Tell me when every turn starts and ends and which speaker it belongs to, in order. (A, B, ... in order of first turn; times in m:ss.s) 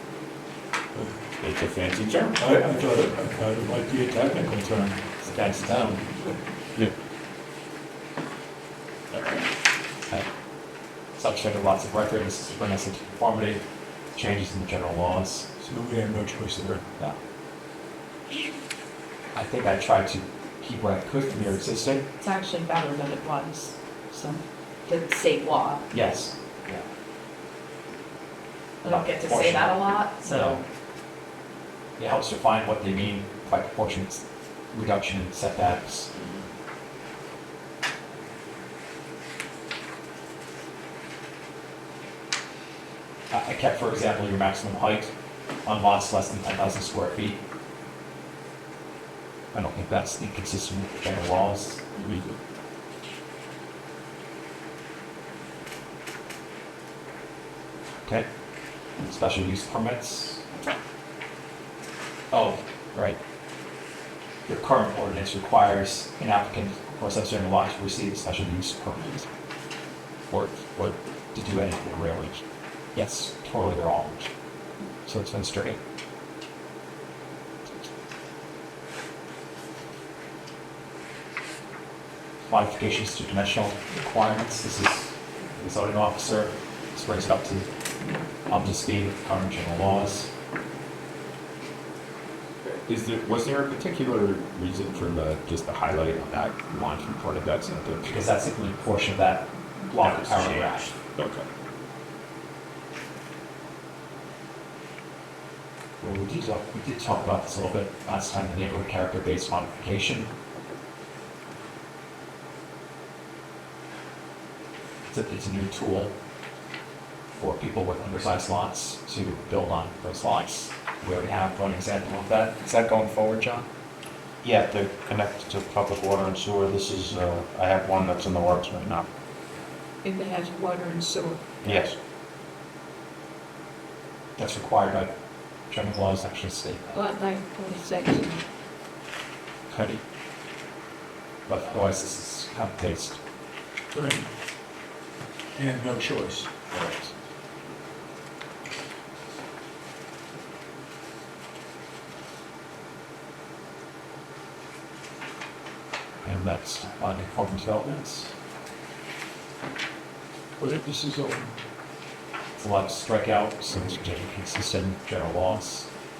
0:01.4-0:02.4 A
0:02.4-0:05.0 B
0:05.2-0:06.0 C
0:09.1-0:09.4 A
0:11.2-0:13.6 C
0:14.2-0:15.5 C
0:15.6-0:16.8 B
0:19.3-0:22.0 C
0:22.2-0:25.9 D
0:25.9-0:26.8 C
0:28.8-0:30.6 D
0:28.8-0:30.6 C
0:32.0-0:36.1 C
0:43.3-0:45.1 C
0:45.6-0:47.4 C
0:49.5-0:51.9 C
0:52.0-0:52.4 A
0:59.0-1:00.5 C
1:02.3-1:03.2 C
1:04.5-1:09.3 C
1:10.3-1:10.9 A
1:11.3-1:12.4 C
1:12.9-1:14.3 C
1:15.0-1:15.8 C
1:22.4-1:27.7 C
1:28.5-1:30.3 C
1:32.8-1:38.2 A
1:38.0-1:40.9 C
1:40.0-1:41.4 A
1:46.0-1:50.3 C
1:55.0-1:56.1 C
1:57.4-2:02.6 C
2:02.6-2:03.6 E
2:04.4-2:09.1 E
2:10.0-2:11.5 D
2:11.6-2:12.0 E
2:14.4-2:15.1 C
2:15.7-2:16.9 C
2:16.9-2:18.4 D
2:19.7-2:20.0 C
2:21.5-2:23.2 C
2:23.9-2:24.3 B
2:25.5-2:26.5 B
2:26.7-2:27.1 C
2:36.2-2:38.3 C
2:40.6-2:41.5 B
2:42.6-2:45.9 C